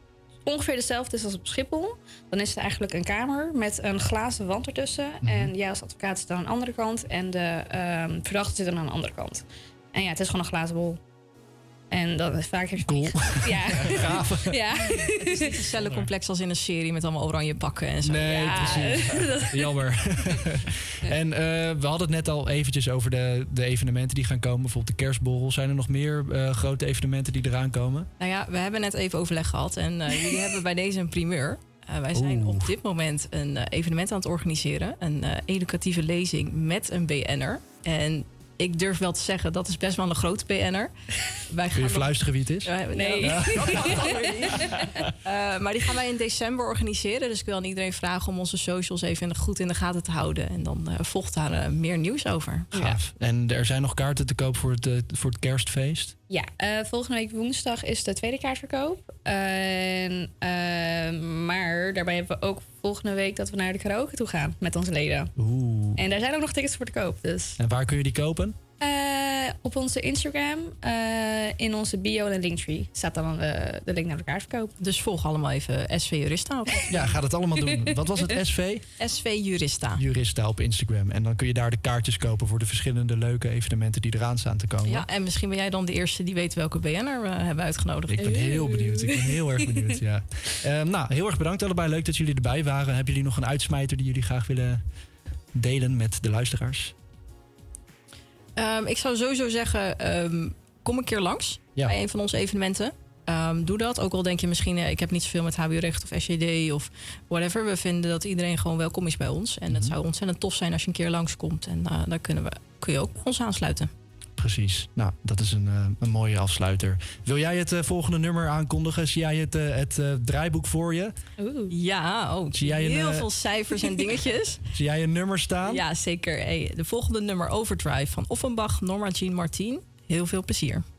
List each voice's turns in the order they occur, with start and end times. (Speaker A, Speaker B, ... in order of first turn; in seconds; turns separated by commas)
Speaker A: 0.4-11.0, Speaker B: 5.2-5.5, Speaker A: 11.9-15.6, Speaker B: 12.8-14.8, Speaker C: 15.2-18.9, Speaker B: 18.0-28.1, Speaker A: 18.2-19.8, Speaker C: 28.2-40.9, Speaker B: 32.1-32.7, Speaker C: 41.5-42.1, Speaker B: 41.7-44.0, Speaker C: 42.6-44.5, Speaker A: 42.9-44.7, Speaker C: 45.2-52.7, Speaker B: 52.7-56.1, Speaker A: 56.3-65.3, Speaker B: 65.4-66.0, Speaker A: 66.0-67.6, Speaker B: 67.6-68.5, Speaker A: 68.8-74.7, Speaker C: 74.8-76.9, Speaker A: 76.7-77.0, Speaker B: 76.9-78.8, Speaker C: 79.0-80.0, Speaker B: 80.0-85.0, Speaker C: 84.8-88.5, Speaker B: 88.1-94.8, Speaker A: 88.2-89.2, Speaker B: 95.5-96.9, Speaker C: 98.6-113.9, Speaker B: 114.4-121.1, Speaker A: 121.4-121.7, Speaker C: 121.7-124.6, Speaker B: 122.5-123.2, Speaker B: 124.7-125.8, Speaker C: 125.6-130.8